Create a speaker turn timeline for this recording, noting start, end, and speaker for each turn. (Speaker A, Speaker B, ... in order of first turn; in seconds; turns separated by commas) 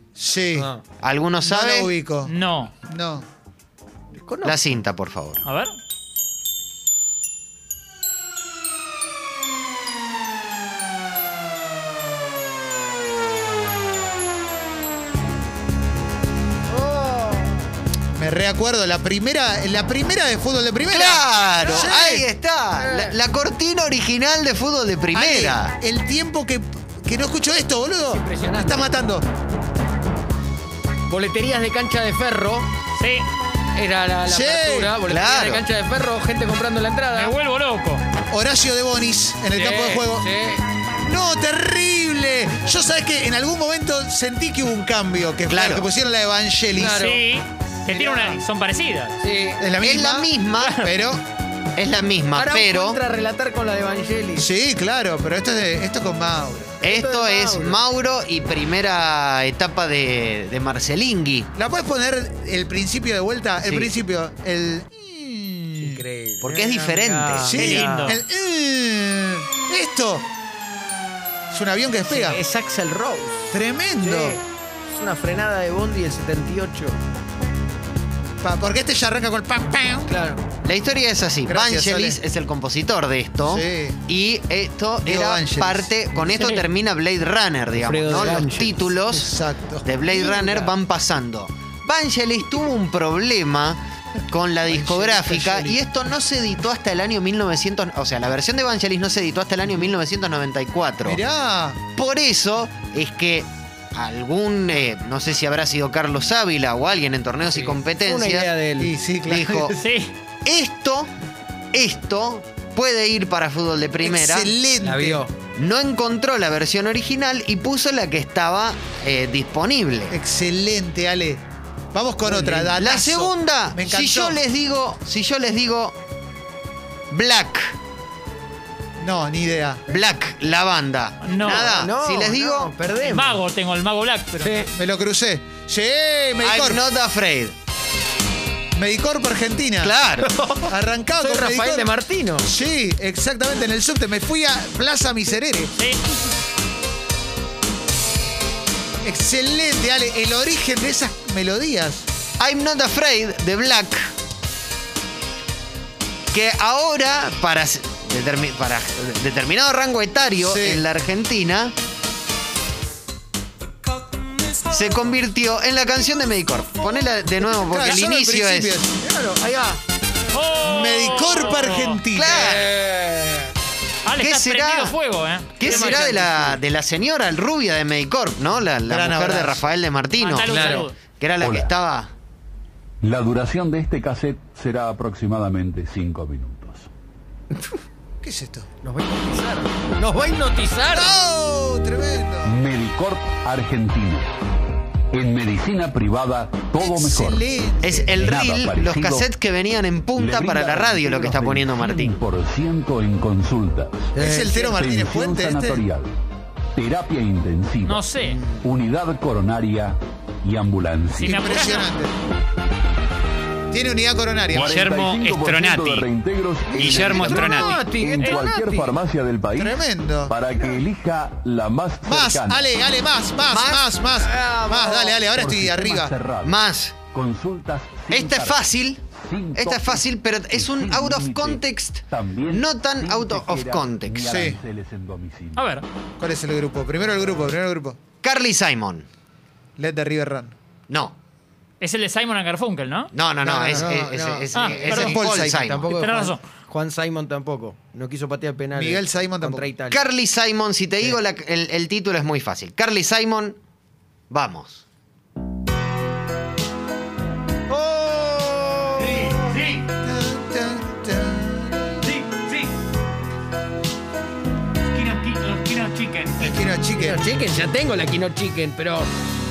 Speaker A: 0.2-0.7, Speaker B: 0.6-0.9, Speaker C: 1.0-1.9, Speaker A: 1.4-2.3, Speaker D: 2.2-2.7, Speaker A: 2.9-3.3, Speaker B: 4.2-4.7, Speaker C: 4.4-5.4, Speaker D: 5.4-5.8, Speaker B: 16.7-17.7, Speaker A: 18.2-22.2, Speaker C: 20.9-25.8, Speaker B: 21.6-22.0, Speaker B: 22.7-23.2, Speaker A: 25.1-29.3, Speaker B: 28.1-28.9, Speaker B: 31.1-32.7, Speaker D: 33.0-33.3, Speaker B: 33.8-37.4, Speaker A: 34.3-35.0, Speaker C: 35.0-35.7, Speaker D: 37.1-38.0, Speaker A: 38.3-40.3, Speaker B: 39.5-40.6, Speaker A: 41.1-47.0, Speaker C: 45.5-45.9, Speaker B: 46.7-47.3, Speaker D: 46.9-49.2, Speaker B: 47.9-48.2, Speaker A: 47.9-48.4, Speaker B: 49.2-49.7, Speaker A: 49.6-51.2, Speaker C: 49.8-50.8, Speaker D: 50.6-50.9, Speaker C: 51.8-53.0, Speaker B: 52.3-54.5, Speaker A: 54.4-56.8, Speaker B: 56.8-57.9, Speaker C: 56.8-61.5, Speaker A: 61.5-66.0, Speaker B: 63.6-64.0, Speaker B: 65.8-68.2, Speaker C: 66.4-68.0, Speaker A: 67.4-70.3, Speaker D: 67.5-68.2, Speaker A: 71.5-72.4, Speaker B: 72.1-73.5, Speaker A: 73.5-74.4, Speaker B: 74.0-77.0, Speaker A: 78.4-80.1, Speaker B: 80.1-80.5, Speaker C: 80.6-89.3, Speaker A: 81.5-82.2, Speaker A: 83.5-84.0, Speaker A: 85.0-85.9, Speaker D: 86.3-86.7, Speaker B: 87.7-88.9, Speaker A: 88.1-88.4, Speaker A: 89.1-89.9, Speaker C: 89.8-101.2, Speaker B: 90.1-90.8, Speaker A: 94.7-95.8, Speaker A: 101.0-101.8, Speaker C: 102.0-108.5, Speaker B: 107.5-109.0, Speaker A: 108.8-109.7, Speaker C: 109.3-109.8, Speaker D: 109.8-110.1, Speaker C: 110.4-111.1, Speaker C: 111.7-114.5, Speaker A: 114.0-115.2, Speaker B: 114.7-115.4, Speaker C: 115.5-120.1, Speaker A: 120.1-121.4, Speaker A: 121.9-124.4, Speaker B: 122.3-122.7, Speaker C: 122.7-126.0, Speaker C: 127.1-127.8, Speaker A: 129.0-130.0, Speaker C: 129.9-132.7, Speaker D: 131.2-131.8, Speaker B: 131.7-133.4, Speaker D: 133.0-134.7, Speaker B: 134.4-134.7, Speaker A: 134.8-136.8, Speaker C: 136.4-137.6, Speaker A: 138.8-139.9, Speaker C: 139.8-140.3, Speaker B: 140.1-142.5, Speaker A: 140.6-145.7, Speaker A: 149.0-152.1, Speaker C: 152.4-154.1, Speaker C: 156.3-161.8, Speaker A: 160.4-160.8, Speaker C: 164.7-168.8, Speaker A: 167.7-169.0, Speaker B: 169.0-169.8, Speaker D: 170.3-172.0, Speaker A: 170.6-172.6, Speaker C: 172.2-172.8, Speaker B: 172.2-173.5, Speaker D: 174.1-176.2, Speaker C: 174.2-175.0, Speaker C: 175.6-182.1, Speaker B: 175.6-176.6, Speaker A: 178.9-179.7, Speaker D: 180.2-181.0, Speaker B: 180.4-180.9, Speaker E: 181.4-181.7, Speaker E: 183.0-186.9, Speaker A: 188.2-188.7, Speaker B: 188.8-191.2, Speaker A: 190.9-192.6, Speaker E: 192.4-194.3, Speaker E: 195.1-197.4, Speaker A: 196.8-198.1, Speaker C: 197.8-202.2, Speaker E: 198.1-199.3, Speaker E: 200.2-206.1, Speaker B: 204.2-204.8, Speaker A: 204.2-205.8, Speaker E: 206.8-208.0, Speaker D: 207.8-208.4, Speaker B: 208.3-208.7, Speaker E: 208.6-211.4, Speaker D: 211.2-211.9, Speaker A: 211.2-212.1, Speaker A: 213.7-214.8, Speaker E: 214.5-222.7, Speaker C: 214.7-216.1, Speaker B: 216.7-218.9, Speaker C: 216.7-217.8, Speaker A: 219.6-220.3, Speaker A: 222.1-226.1, Speaker C: 223.5-223.9, Speaker B: 224.1-225.3, Speaker E: 225.3-226.6, Speaker C: 226.4-227.0, Speaker E: 227.1-235.6, Speaker C: 228.1-234.3, Speaker A: 234.3-234.6, Speaker D: 235.6-235.9, Speaker A: 236.2-238.0, Speaker C: 238.2-239.1, Speaker A: 239.8-240.6, Speaker C: 240.9-241.2, Speaker D: 241.8-243.1, Speaker C: 243.1-245.9, Speaker A: 243.4-244.2, Speaker B: 243.4-250.0, Speaker D: 244.5-245.2, Speaker A: 244.9-245.7, Speaker D: 245.9-246.4, Speaker A: 248.8-249.7, Speaker C: 249.9-253.6, Speaker C: 254.3-254.8, Speaker B: 257.7-259.4, Speaker A: 259.0-262.1, Speaker D: 259.4-259.8, Speaker B: 262.0-262.5, Speaker D: 264.9-266.5, Speaker A: 266.4-267.3, Speaker B: 266.9-269.1